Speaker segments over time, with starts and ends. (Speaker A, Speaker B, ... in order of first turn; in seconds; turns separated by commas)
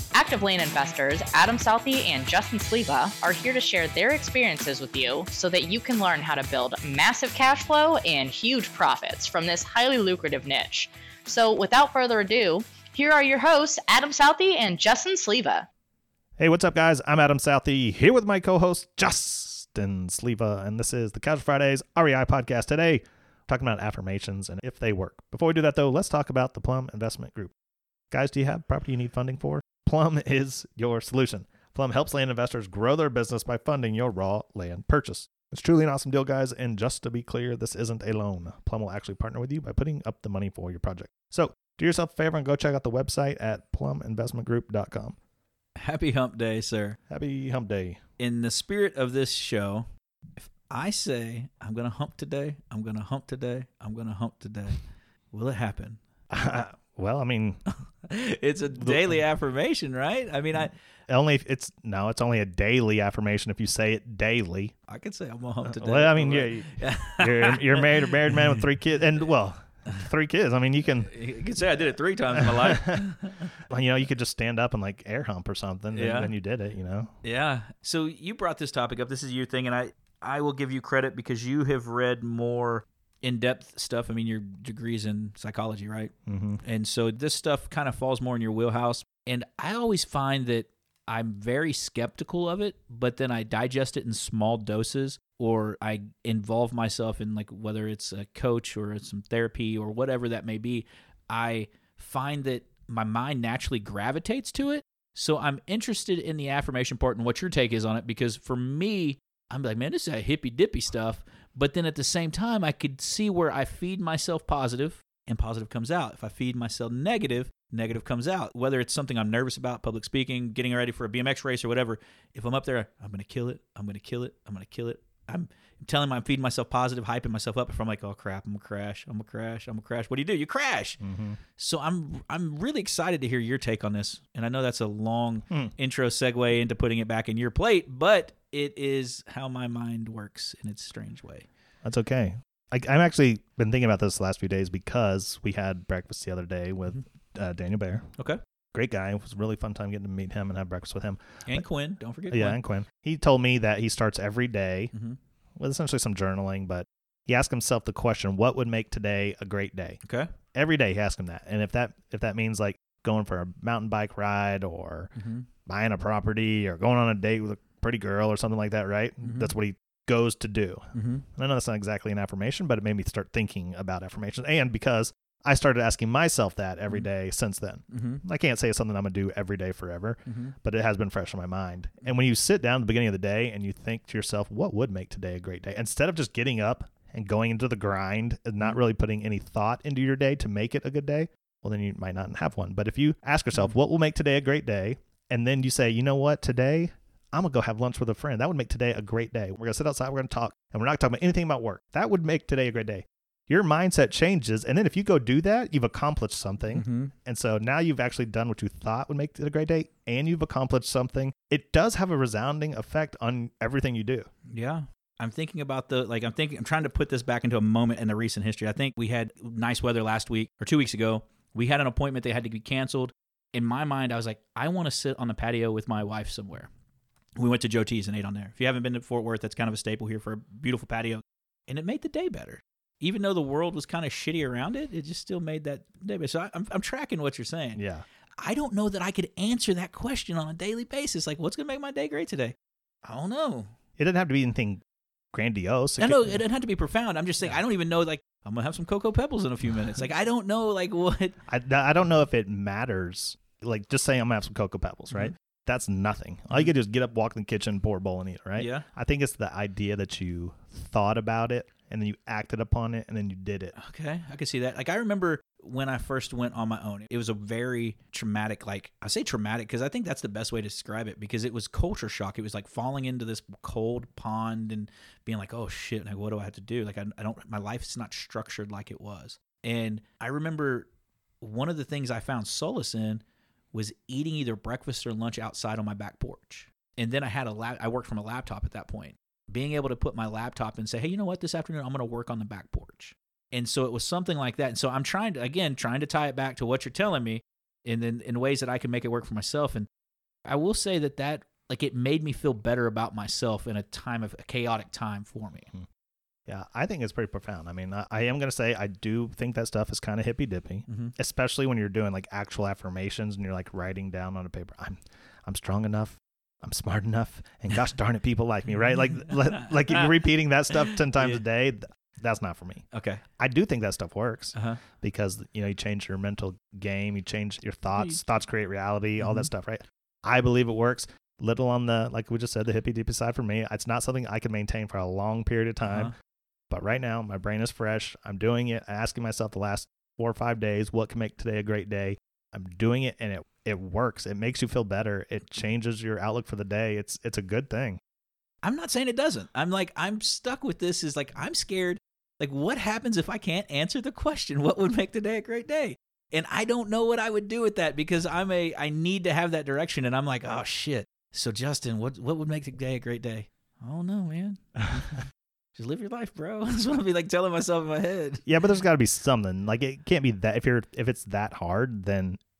Speaker A: 0.1-15.7, Speaker B: 16.4-27.5, Speaker B: 28.1-45.1, Speaker C: 45.8-47.0, Speaker B: 47.1-48.0, Speaker C: 48.2-49.8, Speaker C: 50.4-54.8, Speaker C: 55.3-56.0, Speaker B: 56.3-57.6, Speaker C: 58.0-60.7, Speaker B: 58.8-59.1, Speaker B: 61.1-64.7, Speaker C: 64.9-68.6, Speaker B: 65.6-71.1, Speaker C: 71.0-73.5, Speaker B: 72.4-73.0, Speaker B: 73.7-77.1, Speaker C: 75.9-76.3, Speaker C: 77.2-131.0, Speaker B: 86.3-86.6, Speaker B: 131.0-131.4, Speaker C: 131.6-141.5, Speaker B: 141.8-148.1, Speaker B: 148.7-151.6, Speaker C: 151.4-152.6, Speaker B: 152.3-154.9, Speaker B: 155.6-160.0, Speaker C: 160.0-160.3, Speaker B: 160.5-165.1, Speaker C: 165.1-165.5, Speaker B: 165.7-214.3, Speaker C: 169.2-169.5, Speaker C: 170.9-171.2, Speaker C: 177.9-178.2, Speaker C: 180.2-180.5, Speaker C: 206.7-207.1, Speaker C: 214.5-226.7, Speaker C: 227.4-237.8, Speaker B: 237.8-238.0, Speaker C: 238.4-243.7, Speaker B: 244.0-244.8, Speaker B: 245.3-246.4, Speaker C: 246.0-251.3, Speaker B: 251.5-263.7, Speaker C: 258.5-258.8, Speaker C: 263.7-280.9, Speaker C: 281.4-299.9, Speaker C: 300.4-305.7, Speaker B: 306.5-322.8, Speaker C: 310.9-311.1, Speaker C: 319.3-320.1, Speaker C: 320.9-321.4, Speaker C: 322.9-323.2, Speaker B: 323.4-336.1, Speaker C: 324.5-324.8, Speaker C: 329.2-329.5, Speaker C: 335.8-336.1, Speaker B: 336.7-348.0, Speaker C: 348.6-365.2, Speaker C: 365.7-368.4, Speaker B: 368.4-372.4